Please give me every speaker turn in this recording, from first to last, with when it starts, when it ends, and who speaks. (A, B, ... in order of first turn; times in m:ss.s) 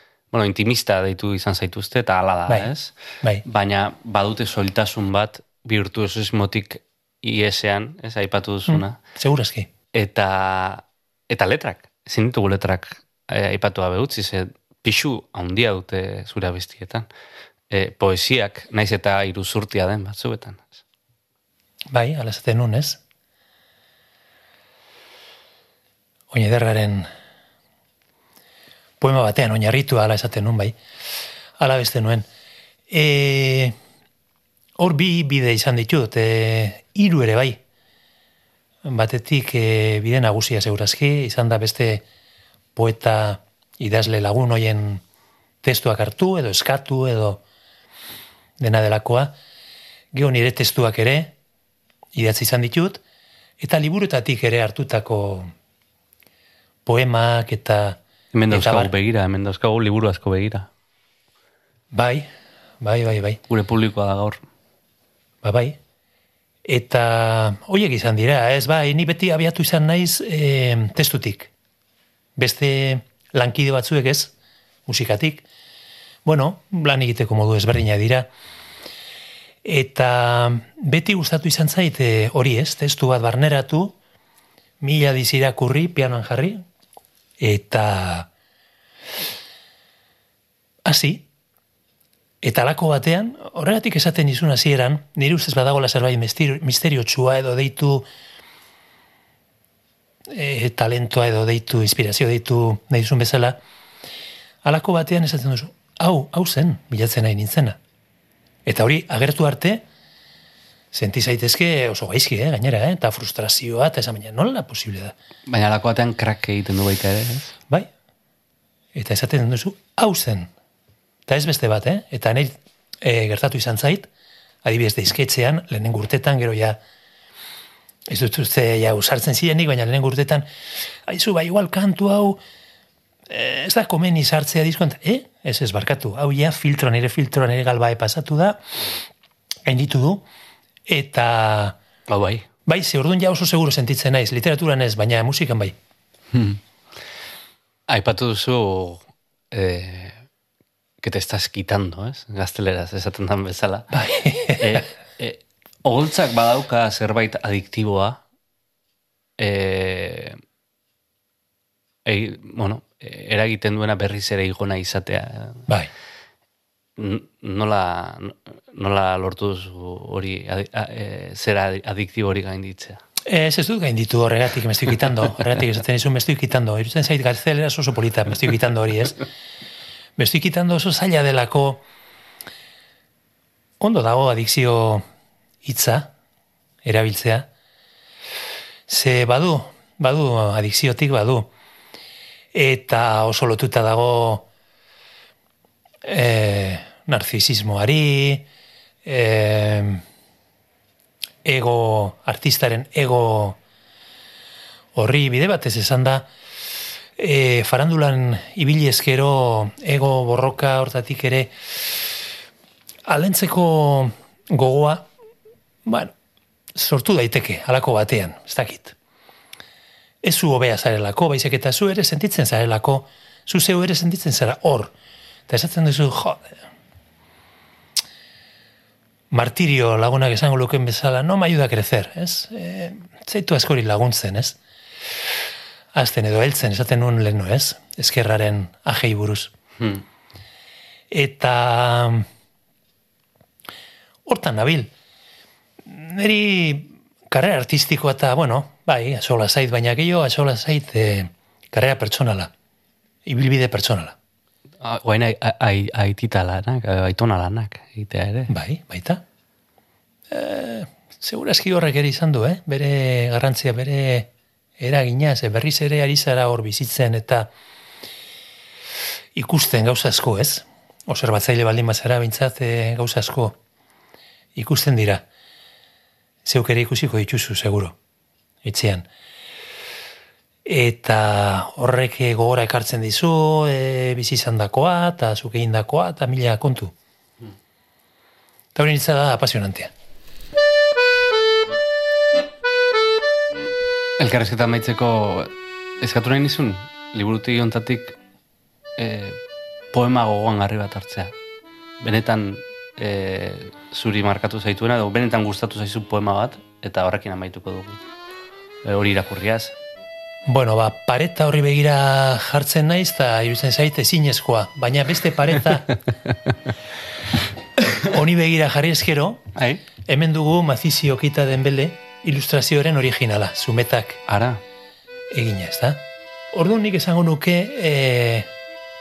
0:00.3-0:02.9 A
0:03.4-0:09.0 A
0:08.7-0:09.7 B
0:09.9-0:17.1 A
0:17.7-0:20.8 A
0:21.9-0:23.0 B
0:26.3-0:27.1 B
0:29.0-0:30.8 B
0:31.6-0:32.3 B
0:32.9-0:33.7 B
0:34.8-0:37.6 B
0:38.8-0:42.0 B
0:42.7-0:45.0 B
0:45.6-0:47.4 B
0:48.6-0:49.4 B
0:50.1-0:51.4 B
0:52.1-0:53.0 B
0:53.6-0:55.5 B
0:56.8-0:58.0 B
0:58.3-1:00.7 A
0:58.5-0:58.9 B
1:01.9-1:02.3 B
1:02.8-1:03.4 B
1:03.5-1:04.4 A
1:05.4-1:05.8 B
1:06.6-1:11.5 B
1:12.4-1:14.3 B
1:14.9-1:15.4 B
1:16.2-1:18.3 B
1:19.6-1:24.0 B
1:24.8-1:26.6 B
1:27.4-1:28.3 B
1:30.8-1:31.3 B
1:32.4-1:38.1 B
1:40.3-1:43.6 B
1:44.6-1:47.8 B
1:48.6-1:49.8 B
1:50.9-1:55.1 B
1:55.5-1:57.5 A
1:58.9-2:00.5 B
2:01.3-2:04.1 B
2:04.6-2:06.8 B
2:08.1-2:10.5 B
2:11.0-2:12.4 B
2:13.3-2:18.6 B
2:19.6-2:20.2 B
2:20.9-2:21.8 B
2:22.1-2:22.5 A
2:22.7-2:25.7 B
2:26.3-2:26.6 A
2:27.9-2:30.2 A
2:31.0-2:34.0 A
2:33.9-2:34.8 B
2:34.5-2:38.2 A
2:39.4-2:40.4 A
2:42.0-2:45.7 A
2:47.0-2:53.0 A
2:53.2-2:59.2 B
3:00.2-3:01.8 B
3:03.8-3:05.0 B
3:05.6-3:06.1 B
3:06.8-3:07.5 B
3:08.9-3:11.5 B
3:12.5-3:14.5 B
3:16.0-3:18.4 B
3:19.0-3:20.0 B
3:21.4-3:23.6 B
3:25.0-3:26.3 B
3:27.2-3:32.0 B
3:33.0-3:35.1 B
3:35.8-3:36.1 B
3:36.7-3:39.0 B
3:40.2-3:44.9 B
3:45.5-3:46.5 B
3:49.3-3:54.6 B
3:55.9-3:59.5 B
4:01.1-4:02.3 B
4:04.3-4:04.9 B
4:05.8-4:12.5 B
4:13.2-4:14.2 B
4:14.8-4:18.5 A
4:18.5-4:19.2 B
4:20.3-4:27.5 B
4:29.4-4:33.6 B
4:34.6-4:35.3 B
4:36.4-4:38.0 B
4:38.6-4:39.1 B
4:40.6-4:46.9 B
4:48.7-4:49.9 B
4:54.2-4:58.2 A
4:59.0-4:59.4 A
4:59.9-5:01.4 A
5:02.0-5:08.0 A
5:08.8-5:09.7 A
5:10.4-5:16.0 B
5:17.8-5:19.4 B
5:19.6-5:19.8 A
5:20.0-5:24.2 B
5:24.3-5:24.6 A
5:25.3-5:28.5 B